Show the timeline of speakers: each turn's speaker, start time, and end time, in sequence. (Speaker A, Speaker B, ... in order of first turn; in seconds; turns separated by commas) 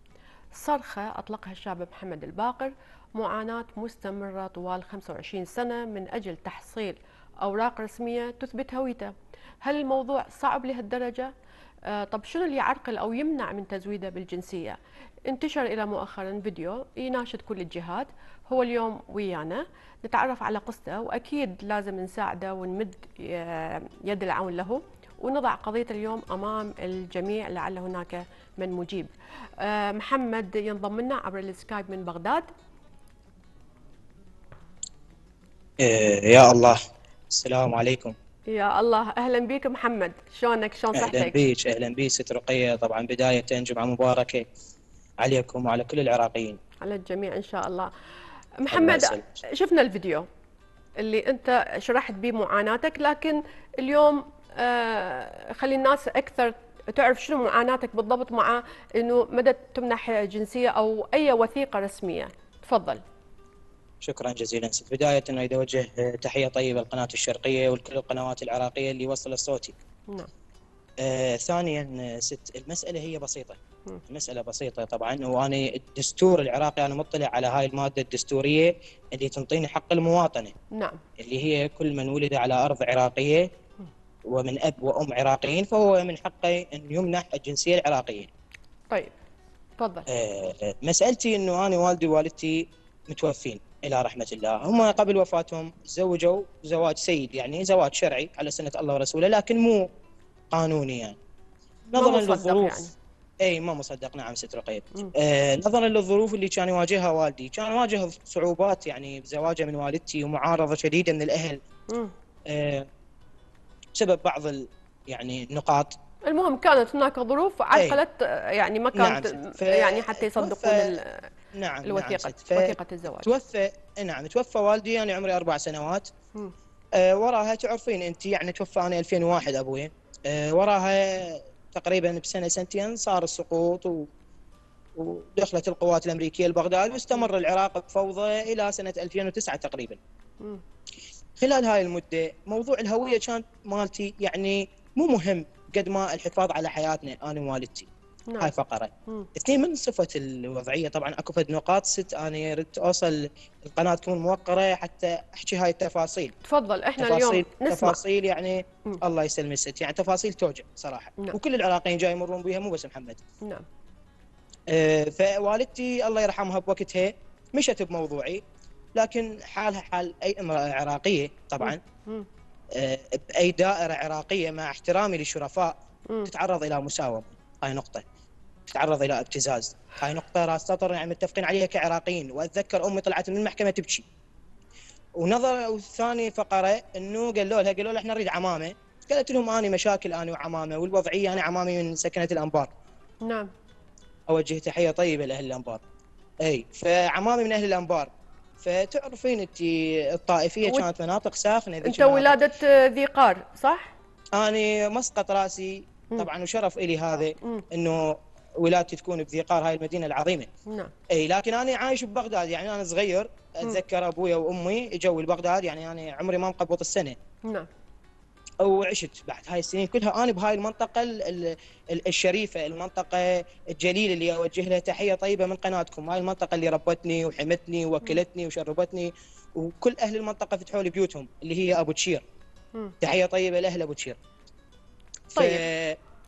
Speaker A: 0.5-11.3, Speaker A: 11.9-32.5, Speaker B: 35.8-36.8, Speaker B: 37.3-38.1, Speaker A: 38.5-41.4, Speaker B: 41.0-44.5, Speaker B: 45.2-46.6, Speaker A: 46.8-47.9, Speaker A: 48.6-50.3, Speaker B: 48.7-49.4, Speaker A: 51.0-63.0, Speaker B: 64.0-69.8, Speaker B: 71.0-80.5, Speaker A: 80.7-81.0, Speaker B: 81.2-83.5, Speaker B: 84.3-88.3, Speaker A: 89.8-90.1, Speaker B: 90.1-99.8, Speaker B: 100.5-101.2, Speaker B: 101.9-102.9, Speaker A: 102.0-102.9, Speaker B: 103.4-111.6, Speaker B: 112.5-112.9, Speaker B: 114.0-116.0, Speaker A: 116.3-121.3, Speaker B: 117.7-118.0, Speaker B: 119.0-121.0, Speaker B: 121.6-126.1, Speaker A: 121.9-123.3, Speaker B: 127.0-134.1, Speaker B: 135.0-140.0, Speaker B: 141.4-147.9, Speaker B: 148.4-156.3, Speaker A: 156.5-158.0, Speaker B: 157.0-163.2, Speaker B: 164.7-168.4, Speaker B: 169.0-171.8, Speaker A: 171.6-172.3, Speaker B: 172.8-175.7, Speaker B: 176.3-178.0, Speaker B: 178.7-184.1, Speaker B: 185.2-192.7, Speaker A: 193.2-193.5, Speaker B: 194.3-195.8, Speaker B: 196.4-198.1, Speaker B: 198.6-202.4, Speaker A: 201.8-203.9, Speaker B: 204.3-210.5, Speaker A: 210.7-210.9, Speaker B: 211.1-217.2, Speaker B: 218.6-232.2, Speaker B: 233.0-234.2, Speaker A: 235.3-235.7, Speaker B: 235.3-236.0